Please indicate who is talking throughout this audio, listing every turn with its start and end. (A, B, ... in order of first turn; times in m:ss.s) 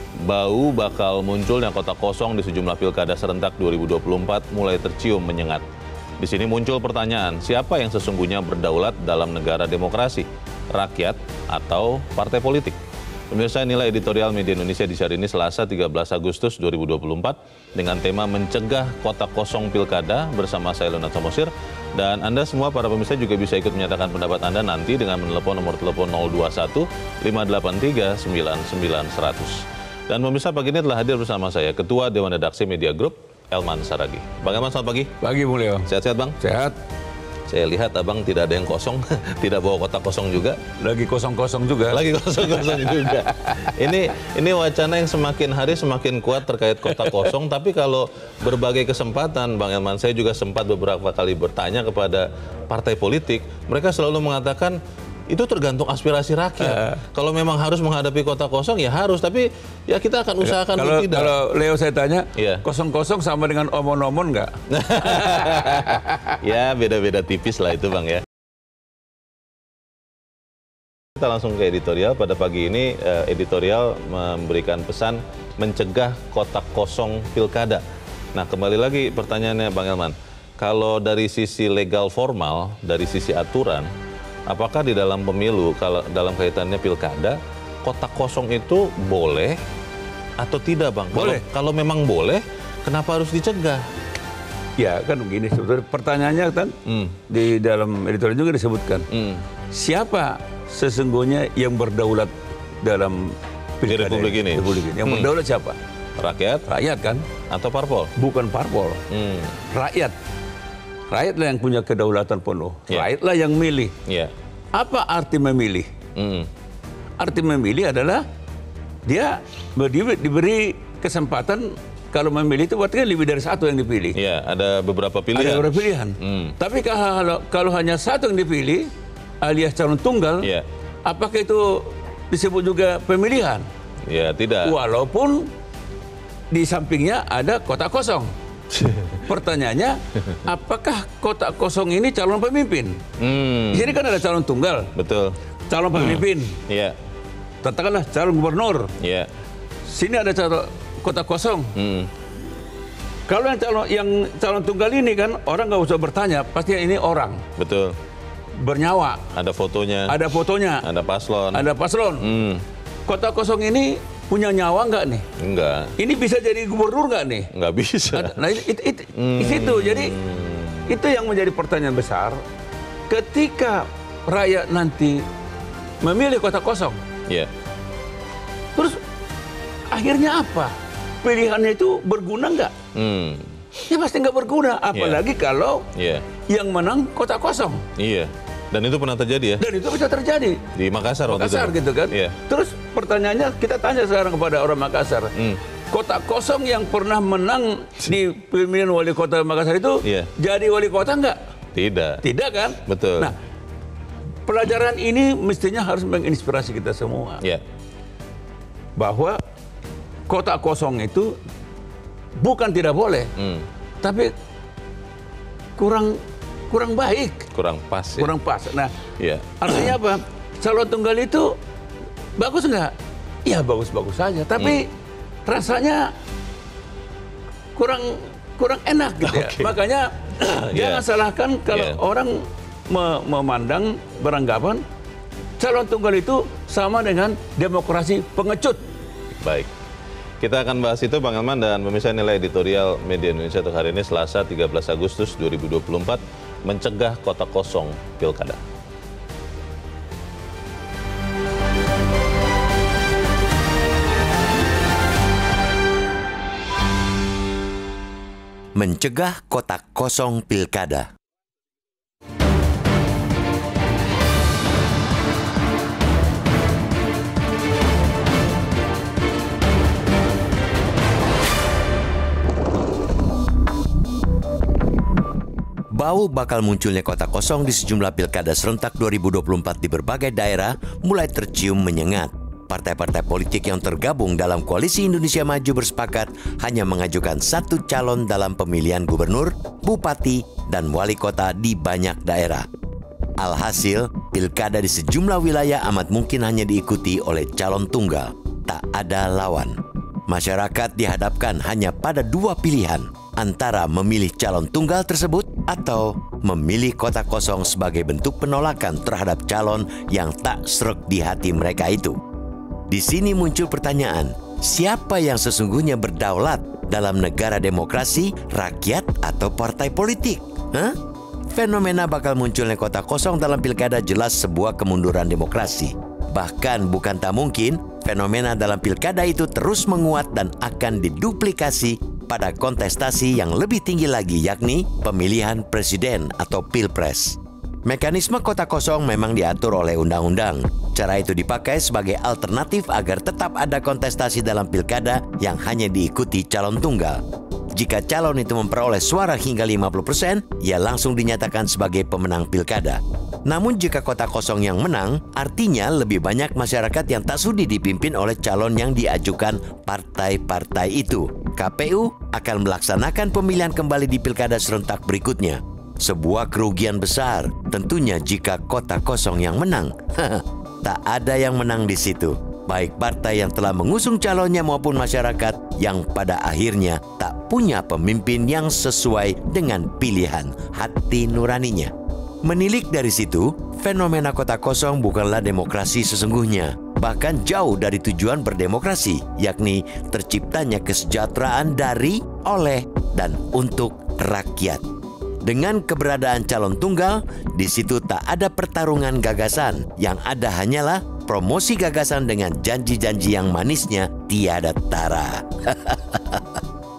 0:00.2-0:05.6 A
0:06.2-0:12.8 A
0:13.3-0:35.1 A
0:35.2-0:35.9 B
0:35.9-0:36.4 A
0:36.4-0:36.7 B
0:37.5-0:40.6 A
0:40.8-0:43.9 B
0:41.9-0:54.8 A
0:46.9-0:47.3 B
0:55.3-1:01.3 A
0:56.6-0:57.0 B
1:00.4-1:06.0 B
1:02.4-1:02.6 A
1:04.7-1:08.2 A
1:11.2-1:17.8 A
1:18.3-1:23.9 A
1:24.5-1:29.6 A
1:30.4-1:33.8 A
1:31.1-1:31.4 B
1:34.8-1:36.7 B
1:36.9-1:37.2 A
1:37.3-1:39.0 B
1:39.1-1:39.4 A
1:39.7-1:45.8 B
1:43.9-1:45.3 A
1:46.2-1:46.7 A
1:46.7-1:47.2 B
1:47.5-1:48.1 A
1:48.2-1:49.0 B
1:49.1-1:49.6 A
1:49.7-1:50.1 B
1:51.1-1:53.9 B
1:54.1-1:54.3 A
1:54.7-1:55.9 B
1:56.2-1:56.5 A
1:57.2-1:58.2 B
1:59.0-2:04.2 B
2:04.2-2:06.6 A
2:05.3-2:08.9 B
2:09.4-2:10.5 B
2:11.0-2:13.7 B
2:14.1-2:14.8 A
2:14.6-2:15.5 B
2:16.5-2:18.3 B
2:18.7-2:19.2 A
2:19.2-2:23.0 B
2:23.2-2:24.0 A
2:23.7-2:24.9 B
2:25.0-2:25.4 A
2:25.7-2:26.6 B
2:25.9-2:27.0 A
2:27.6-2:28.9 B
2:29.0-2:29.3 A
2:29.9-2:31.7 B
2:31.8-2:32.1 A
2:33.3-2:37.4 B
2:37.6-2:38.0 A
2:38.6-2:39.2 B
2:39.3-2:40.2 A
2:40.1-2:40.8 B
2:40.8-2:42.6 A
2:41.5-2:42.3 B
2:43.1-2:45.2 B
2:45.4-2:45.9 A
2:46.0-2:47.5 B
2:47.5-2:48.4 A
2:48.1-2:50.2 B
2:49.2-2:50.9 A
2:50.9-2:52.4 B
2:53.1-2:55.2 B
2:56.0-2:57.0 B
2:58.8-2:59.0 B
2:59.9-3:02.7 B
3:02.9-3:03.6 A
3:03.8-3:05.8 B
3:04.9-3:05.2 A
3:05.9-3:06.2 A
3:06.5-3:07.8 B
3:08.0-3:09.6 A
3:09.6-3:10.6 B
3:10.8-3:12.4 A
3:11.3-3:15.3 B
3:15.9-3:21.4 B
3:20.0-3:20.3 A
3:21.7-3:22.2 A
3:22.2-3:23.4 B
3:22.9-3:23.3 A
3:24.5-3:27.4 B
3:29.0-3:29.4 B
3:30.3-3:31.4 B
3:32.4-3:33.3 B
3:33.4-3:33.6 A
3:34.0-3:34.3 B
3:35.8-3:37.5 B
3:37.5-3:38.3 A
3:38.2-3:38.9 B
3:39.2-3:39.9 A
3:39.6-3:41.6 B
3:42.4-3:42.9 B
3:43.4-3:44.9 B
3:44.6-3:44.8 A
3:45.4-3:46.1 B
3:47.8-3:54.8 B
3:49.2-3:49.8 A
3:50.7-3:51.0 A
3:51.7-3:52.0 A
3:55.6-3:58.8 B
3:59.4-3:59.7 A
4:00.4-4:08.6 A
4:18.8-4:21.1 C
4:35.9-4:52.7 C
4:53.4-5:12.2 C
5:12.9-5:21.0 C
5:21.5-5:47.2 C
5:47.7-6:34.8 C
6:35.4-6:46.6 C